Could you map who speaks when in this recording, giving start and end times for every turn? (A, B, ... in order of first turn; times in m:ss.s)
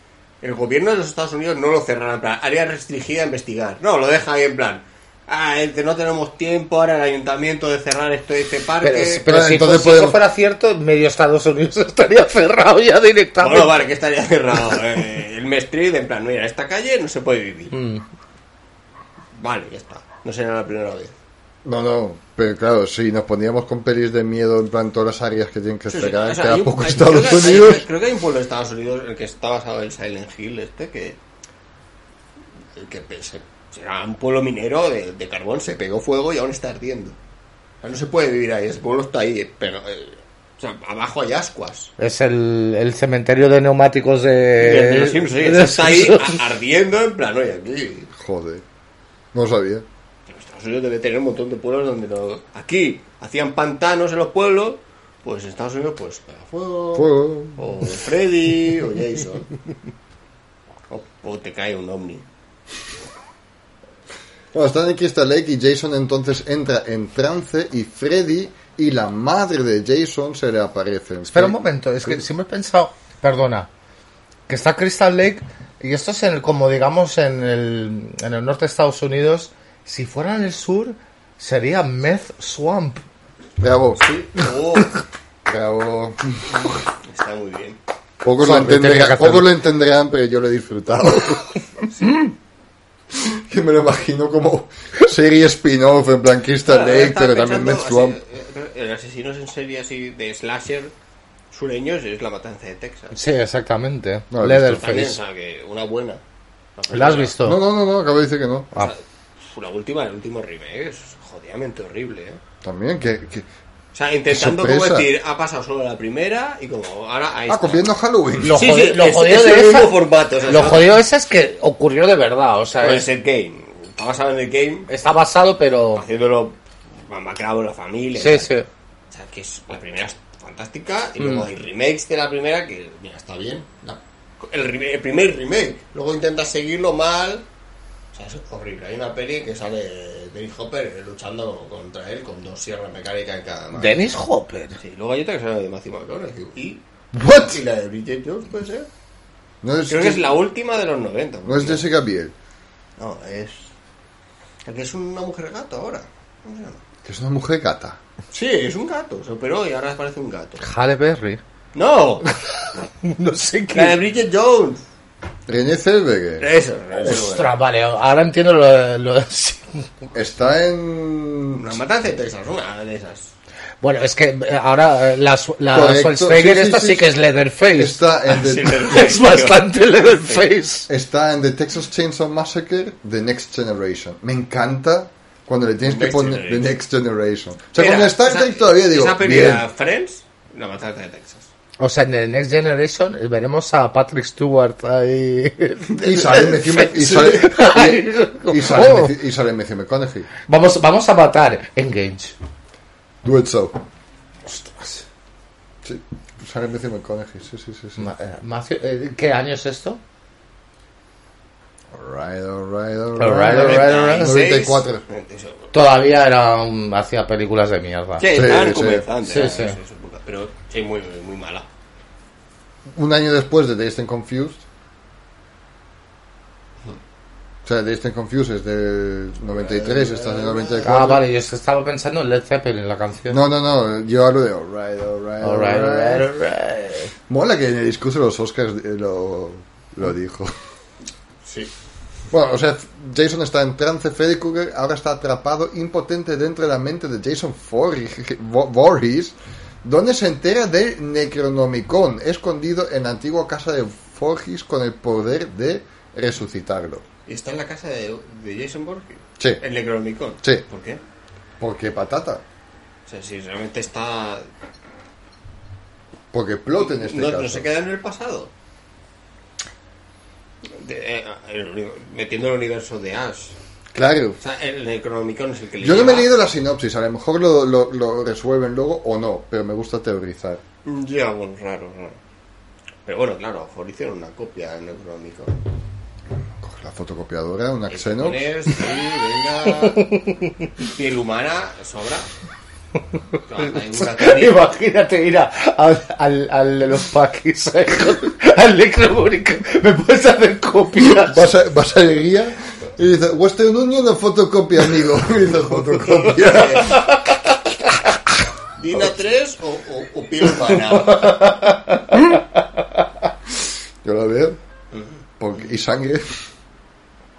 0:00.4-0:09.2 A
0:08.8-0:13.8 B
0:09.2-0:10.2 C
0:13.4-0:17.7 A
0:17.7-0:18.0 B
0:19.3-0:21.1 A
0:21.6-0:27.8 C
0:25.9-0:31.2 A
0:32.8-0:37.2 A
0:37.8-0:41.9 A
0:42.0-0:46.4 B
0:44.6-0:48.1 A
0:48.1-0:48.6 C
0:49.3-0:49.8 C
0:50.3-0:59.5 A
0:56.9-0:57.8 C
1:00.9-1:02.2 A
1:04.5-1:12.2 C
1:11.3-1:13.7 B
1:14.5-1:23.0 B
1:23.6-1:24.0 C
1:24.0-1:25.0 A
1:25.4-1:26.5 C
1:26.6-1:27.8 A
1:28.2-1:31.9 C
1:28.4-1:29.5 B
1:31.9-1:32.2 A
1:33.1-1:38.2 C
1:36.6-1:40.9 A
1:41.5-1:43.2 A
1:43.1-1:45.2 B
1:44.3-1:44.8 C
1:44.7-1:46.2 A
1:46.8-1:47.3 A
1:46.9-1:47.6 B
1:47.4-1:48.7 C
1:48.7-1:52.4 A
1:52.6-1:53.5 C
1:53.9-1:57.8 A
1:54.3-1:55.1 C
1:57.5-1:58.6 C
1:58.4-1:59.9 B
1:58.4-2:01.0 A
2:00.5-2:03.0 B
2:02.8-2:04.9 A
2:04.9-2:06.0 B
2:05.9-2:08.5 A
2:08.2-2:08.6 B
2:09.1-2:17.4 A
2:11.2-2:11.4 B
2:18.1-2:24.1 A
2:23.7-2:24.8 B
2:24.8-2:28.9 A
2:29.6-2:30.4 C
2:29.9-2:31.8 A
2:31.4-2:32.3 C
2:33.0-2:33.7 A
2:34.6-2:36.8 A
2:37.0-2:38.0 C
2:38.3-2:40.6 A
2:40.6-2:41.4 B
2:41.7-2:42.3 A
2:43.0-2:44.0 B
2:43.7-2:44.8 A
2:45.5-2:46.5 C
2:46.4-2:47.5 A
2:47.0-2:49.9 B
2:50.1-2:51.8 C
2:51.5-2:53.3 A
2:53.8-2:58.0 B
2:55.7-2:57.1 C
2:57.8-2:58.9 C
2:58.3-3:00.4 A
2:58.8-3:00.9 B
3:00.9-3:09.6 C
3:05.8-3:06.7 A
3:07.7-3:11.5 A
3:11.8-3:19.1 B
3:16.0-3:20.3 C
3:20.5-3:22.3 B
3:23.2-3:23.8 C
3:24.4-3:25.0 B
3:25.8-3:28.0 C
3:28.0-3:30.0 B
3:31.9-3:35.0 C
3:33.2-3:34.3 B
3:33.5-3:35.7 A
3:35.7-3:38.2 B
3:38.2-3:41.7 A
3:38.3-3:39.1 C
3:39.2-3:39.8 B
3:42.9-3:44.6 C
3:47.6-3:51.2 C
3:49.5-3:50.9 A
3:50.8-3:53.4 B
3:53.3-3:56.3 C
3:55.4-3:57.1 B
3:57.3-4:00.5 C
4:01.4-4:01.7 A
4:02.3-4:17.0 C
4:17.3-4:21.0 A
4:21.6-4:22.4 C
4:23.1-4:24.4 A
4:26.3-4:27.7 C
4:26.8-4:28.5 A
4:30.6-4:33.6 A
4:33.9-4:34.4 C
4:34.4-4:36.3 A
4:35.8-4:40.6 C
4:40.8-4:42.2 A
4:43.0-4:45.6 A
4:46.6-4:48.5 C
4:47.9-4:50.0 A
4:49.8-4:50.7 B
4:50.8-4:52.3 A
4:53.5-4:54.6 A
4:54.0-5:01.5 B
5:01.0-5:07.2 C
5:06.1-5:07.0 A
5:06.8-5:07.2 B
5:08.8-5:11.3 A
5:10.9-5:12.4 B
5:14.0-5:14.6 C
5:15.4-5:16.3 C